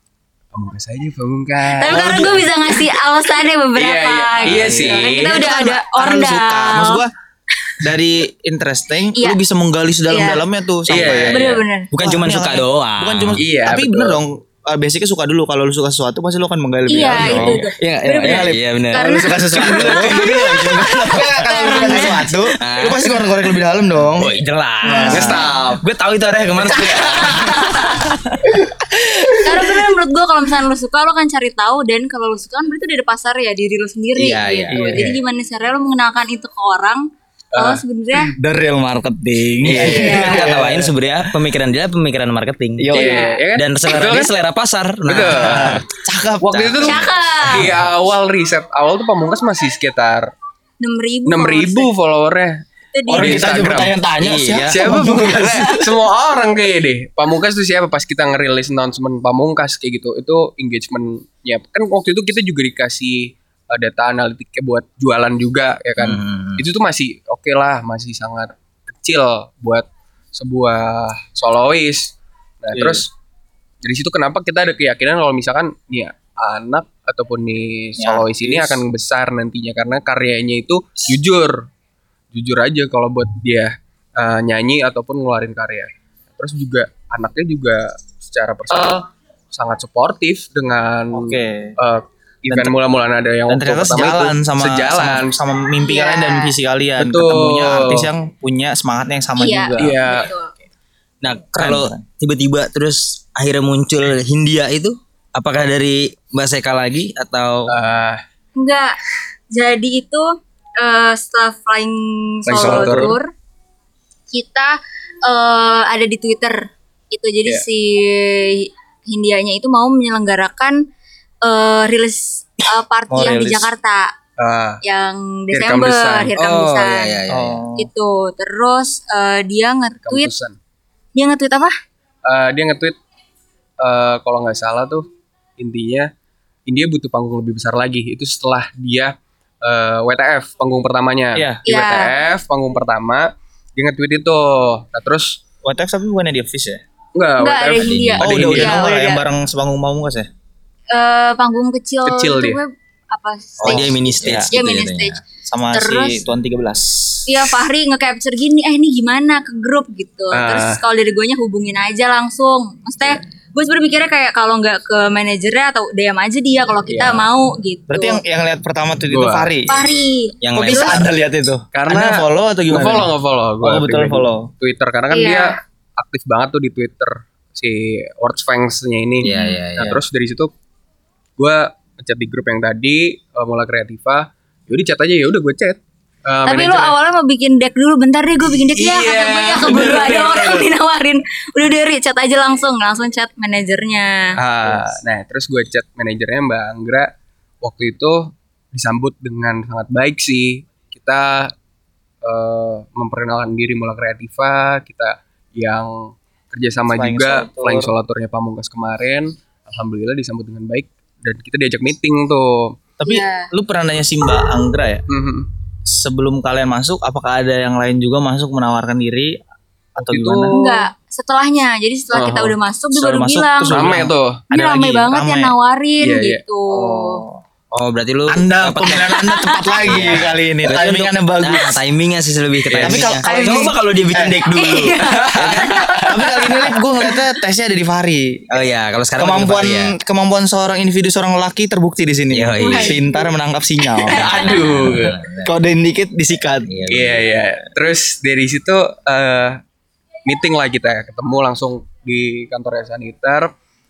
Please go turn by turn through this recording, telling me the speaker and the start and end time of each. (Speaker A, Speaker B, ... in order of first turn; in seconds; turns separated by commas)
Speaker A: 0.5-2.4, Speaker B: 1.8-7.0, Speaker C: 1.8-2.5, Speaker A: 3.8-5.3, Speaker D: 4.5-5.0, Speaker C: 4.5-7.1, Speaker C: 7.8-25.5, Speaker B: 10.1-10.4, Speaker A: 10.9-11.5, Speaker D: 10.9-13.4, Speaker B: 11.3-11.9, Speaker A: 13.4-14.2, Speaker B: 16.9-22.4, Speaker D: 17.0-23.3, Speaker D: 24.1-28.4, Speaker B: 24.9-25.1, Speaker A: 25.1-25.8, Speaker C: 26.7-27.8, Speaker C: 28.7-29.8, Speaker B: 29.4-38.3, Speaker D: 34.1-35.1, Speaker C: 34.7-35.1, Speaker A: 37.5-38.3, Speaker C: 38.4-40.9, Speaker D: 39.6-42.9, Speaker B: 39.8-40.5, Speaker C: 42.8-43.3, Speaker A: 42.9-44.3, Speaker B: 42.9-43.4, Speaker D: 43.5-45.8, Speaker A: 45.0-45.8, Speaker C: 45.2-47.8, Speaker A: 46.4-50.3, Speaker B: 46.8-47.7, Speaker B: 50.8-51.9, Speaker A: 51.3-52.6, Speaker B: 52.9-53.4, Speaker C: 53.1-55.9, Speaker A: 53.1-53.9, Speaker D: 54.2-55.1, Speaker A: 54.6-73.1, Speaker D: 66.0-66.6, Speaker C: 72.7-73.0, Speaker A: 73.8-81.6, Speaker C: 78.0-78.8, Speaker A: 82.3-95.3, Speaker C: 91.1-91.7, Speaker C: 92.5-92.7, Speaker C: 93.5-100.0, Speaker B: 95.8-96.5, Speaker A: 97.0-98.1, Speaker B: 99.4-100.5, Speaker A: 99.8-100.3, Speaker D: 101.2-107.7, Speaker C: 101.6-102.0, Speaker A: 107.7-108.2, Speaker B: 108.5-109.0, Speaker B: 109.5-113.3, Speaker A: 112.5-113.2, Speaker C: 112.5-113.1, Speaker B: 114.3-120.8, Speaker B: 121.4-124.1, Speaker C: 123.1-123.7, Speaker A: 124.4-124.8, Speaker B: 124.8-127.1, Speaker A: 125.5-126.3, Speaker D: 126.3-127.6, Speaker C: 127.3-127.9, Speaker B: 127.8-130.3, Speaker A: 130.0-130.6, Speaker B: 131.1-131.7, Speaker A: 132.2-132.9, Speaker A: 133.8-135.1, Speaker A: 135.6-136.1, Speaker A: 136.7-145.4, Speaker C: 141.3-141.7, Speaker B: 141.7-142.1, Speaker C: 145.6-146.8, Speaker A: 147.1-148.8, Speaker B: 147.4-149.2, Speaker D: 147.8-148.4, Speaker C: 148.2-150.3, Speaker B: 150.9-155.2, Speaker A: 152.0-152.6, Speaker D: 153.6-155.2, Speaker C: 153.6-154.5, Speaker C: 155.4-157.2, Speaker B: 155.7-156.2, Speaker B: 157.2-168.2, Speaker A: 160.3-160.8, Speaker C: 167.9-169.7, Speaker A: 169.1-169.5, Speaker B: 169.7-171.0, Speaker D: 170.4-171.1, Speaker C: 170.5-173.1, Speaker A: 171.7-180.5, Speaker C: 173.6-174.5, Speaker B: 175.1-175.6, Speaker D: 179.2-180.0, Speaker B: 179.2-179.6, Speaker A: 181.4-186.9, Speaker B: 186.4-194.4, Speaker A: 188.5-190.7, Speaker A: 194.4-197.1, Speaker A: 197.6-201.5, Speaker A: 202.2-212.7, Speaker C: 206.9-207.9, Speaker C: 213.0-215.0, Speaker B: 213.0-213.5, Speaker A: 215.1-215.5, Speaker C: 215.9-219.4, Speaker C: 219.9-220.6, Speaker A: 220.0-220.6, Speaker B: 220.5-223.8, Speaker A: 222.1-222.6, Speaker C: 222.9-225.5, Speaker A: 223.7-224.4, Speaker B: 224.5-227.2, Speaker A: 226.0-226.4, Speaker C: 226.7-227.4, Speaker D: 227.7-229.1, Speaker C: 228.3-231.8, Speaker B: 229.0-230.0, Speaker D: 229.8-236.0, Speaker A: 232.7-233.1, Speaker C: 232.8-234.5, Speaker B: 233.2-233.8, Speaker B: 234.4-237.1, Speaker C: 235.4-238.5, Speaker D: 238.5-239.9, Speaker C: 239.2-246.9, Speaker D: 242.3-243.0, Speaker B: 242.6-243.2, Speaker B: 244.1-244.6, Speaker D: 244.1-245.5, Speaker A: 244.2-245.2, Speaker D: 246.7-247.3, Speaker A: 246.9-249.6, Speaker A: 250.2-253.5